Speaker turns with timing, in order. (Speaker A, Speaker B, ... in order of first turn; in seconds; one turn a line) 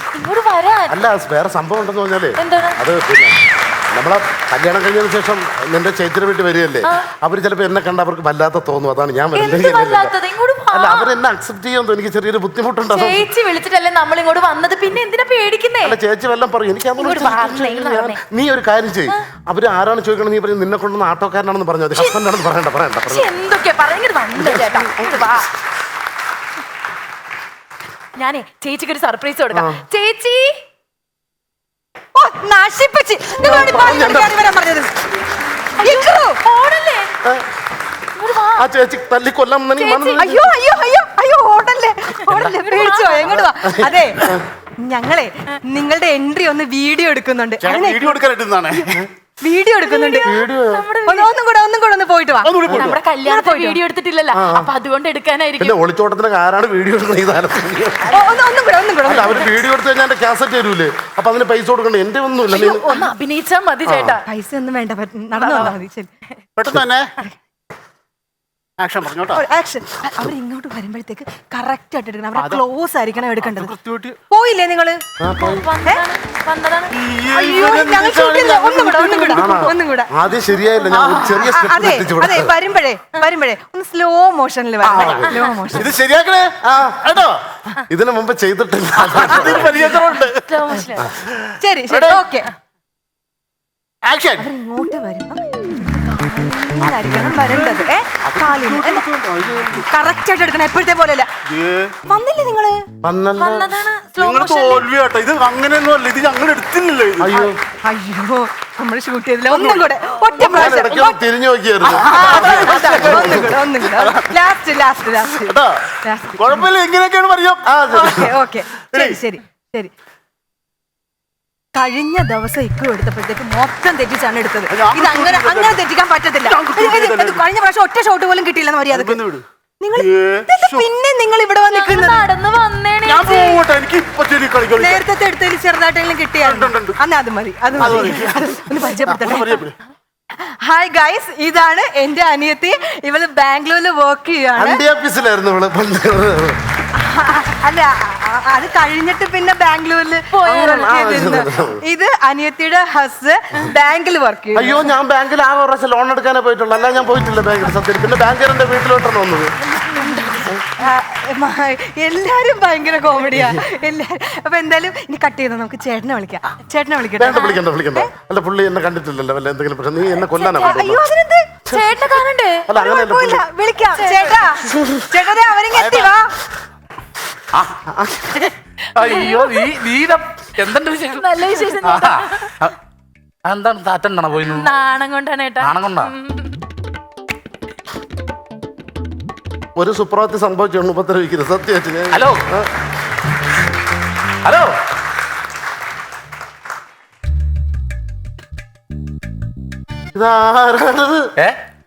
Speaker A: 0.1-0.9
Speaker B: 0.9-3.4
Speaker A: 2.4-2.8
Speaker B: 3.9-10.1
Speaker A: 9.3-11.1
Speaker B: 10.7-13.3
Speaker A: 12.9-16.0
Speaker B: 15.8-23.3
Speaker A: 17.0-18.2
Speaker A: 21.9-22.2
Speaker A: 23.1-25.5
Speaker B: 24.4-25.3
Speaker A: 28.2-30.5
Speaker B: 29.5-29.8
Speaker C: 32.1-34.9
Speaker B: 33.4-34.4
Speaker A: 35.8-37.1
Speaker C: 35.8-36.4
Speaker A: 38.2-38.6
Speaker B: 38.6-40.5
Speaker A: 39.8-40.2
Speaker C: 40.2-44.3
Speaker A: 42.3-43.5
Speaker B: 43.6-44.4
Speaker C: 44.8-48.2
Speaker D: 47.6-49.0
Speaker C: 48.7-50.3
Speaker A: 49.8-51.3
Speaker B: 50.2-50.8
Speaker C: 51.1-52.6
Speaker D: 52.4-53.0
Speaker A: 52.7-55.8
Speaker C: 53.2-53.8
Speaker B: 54.3-54.7
Speaker B: 55.6-58.2
Speaker C: 58.1-59.5
Speaker B: 59.0-62.8
Speaker A: 62.5-64.2
Speaker B: 63.9-64.2
Speaker C: 64.3-66.1
Speaker A: 65.3-65.8
Speaker D: 66.6-67.1
Speaker D: 68.8-69.4
Speaker C: 69.3-73.7
Speaker D: 72.4-72.6
Speaker D: 73.4-74.2
Speaker C: 74.3-75.0
Speaker B: 75.2-75.7
Speaker A: 75.4-77.0
Speaker D: 76.9-79.2
Speaker C: 77.3-80.1
Speaker A: 79.2-79.6
Speaker B: 79.3-82.5
Speaker D: 80.9-81.3
Speaker E: 80.9-81.4
Speaker C: 81.3-85.9
Speaker D: 84.8-85.2
Speaker B: 84.9-85.4
Speaker A: 85.3-85.6
Speaker D: 85.7-86.6
Speaker B: 86.6-89.9
Speaker D: 89.0-92.2
Speaker A: 90.5-91.0
Speaker C: 91.6-92.5
Speaker D: 94.0-94.5
Speaker C: 94.4-99.0
Speaker D: 97.7-99.9
Speaker C: 99.8-101.3
Speaker D: 101.5-101.9
Speaker C: 102.1-102.8
Speaker B: 103.0-103.8
Speaker A: 103.4-104.9
Speaker D: 104.2-107.5
Speaker B: 107.2-107.6
Speaker C: 107.8-111.2
Speaker D: 110.3-111.1
Speaker B: 110.4-113.6
Speaker D: 111.8-114.3
Speaker C: 112.0-116.7
Speaker B: 115.5-115.8
Speaker D: 116.3-118.2
Speaker B: 117.7-118.3
Speaker C: 117.9-119.9
Speaker D: 118.8-119.2
Speaker C: 121.7-129.2
Speaker D: 124.7-125.8
Speaker D: 126.5-127.4
Speaker D: 128.9-129.4
Speaker C: 129.8-132.2
Speaker D: 130.0-130.8
Speaker A: 131.7-133.6
Speaker D: 133.0-135.0
Speaker C: 134.8-139.6
Speaker D: 136.4-137.0
Speaker D: 137.8-139.7
Speaker C: 140.4-144.8
Speaker B: 144.6-146.6
Speaker C: 147.0-154.9
Speaker A: 150.3-151.0
Speaker B: 150.5-151.8
Speaker B: 154.6-159.5
Speaker A: 159.7-160.5
Speaker C: 160.0-168.1
Speaker B: 167.2-171.0
Speaker A: 170.4-170.8
Speaker C: 170.6-171.6
Speaker A: 171.7-172.7
Speaker B: 171.7-172.0
Speaker B: 172.7-173.4
Speaker C: 172.7-176.3
Speaker A: 174.0-174.4
Speaker B: 174.6-175.1
Speaker B: 177.9-178.5
Speaker E: 178.9-182.8
Speaker A: 179.0-179.7
Speaker A: 181.2-182.5
Speaker E: 183.5-184.7
Speaker A: 184.4-186.6
Speaker E: 185.6-186.1
Speaker B: 189.8-192.7
Speaker E: 192.1-192.4
Speaker E: 194.4-194.7
Speaker B: 200.1-201.3